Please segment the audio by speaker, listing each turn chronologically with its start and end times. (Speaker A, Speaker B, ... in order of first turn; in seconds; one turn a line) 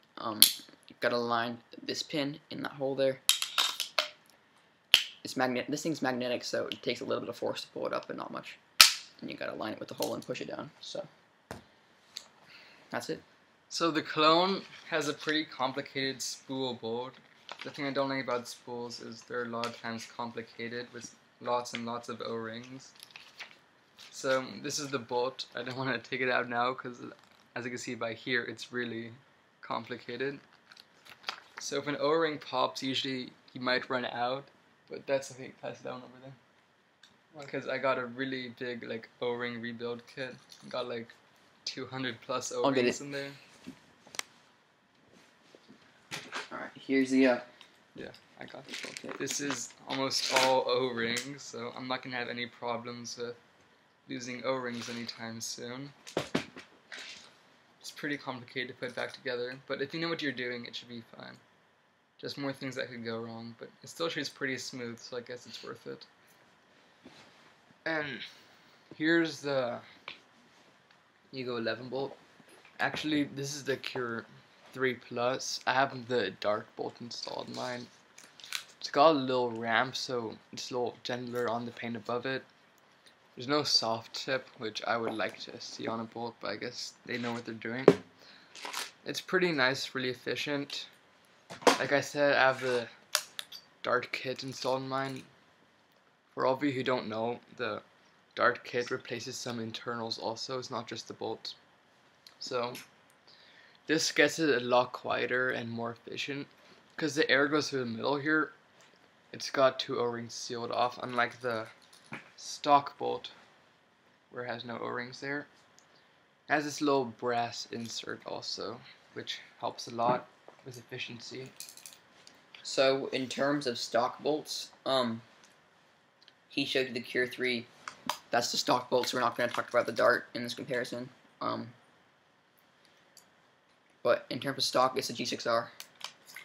Speaker A: 0.2-3.2
Speaker A: 5.2-8.6
Speaker A: 9.2-11.1
Speaker A: 12.9-13.2
Speaker B: 13.7-22.9
Speaker B: 24.1-30.4
Speaker B: 31.6-36.4
Speaker B: 37.4-41.1
Speaker B: 41.6-43.4
Speaker A: 42.6-43.0
Speaker A: 46.5-47.4
Speaker B: 47.9-53.4
Speaker B: 54.1-55.9
Speaker B: 57.8-61.4
Speaker B: 62.2-66.1
Speaker C: 67.8-70.0
Speaker C: 71.3-72.2
Speaker C: 72.8-77.9
Speaker C: 78.8-82.5
Speaker C: 83.3-88.0
Speaker C: 89.0-90.9
Speaker C: 91.7-92.9
Speaker C: 93.8-95.3
Speaker C: 96.3-97.8
Speaker C: 98.3-101.5
Speaker C: 102.4-102.8
Speaker C: 103.8-108.5
Speaker C: 109.3-111.7
Speaker C: 112.4-113.3
Speaker C: 114.3-115.5
Speaker C: 116.5-121.5
Speaker A: 122.6-125.2
Speaker A: 126.5-127.7
Speaker A: 128.3-131.8
Speaker A: 134.0-135.7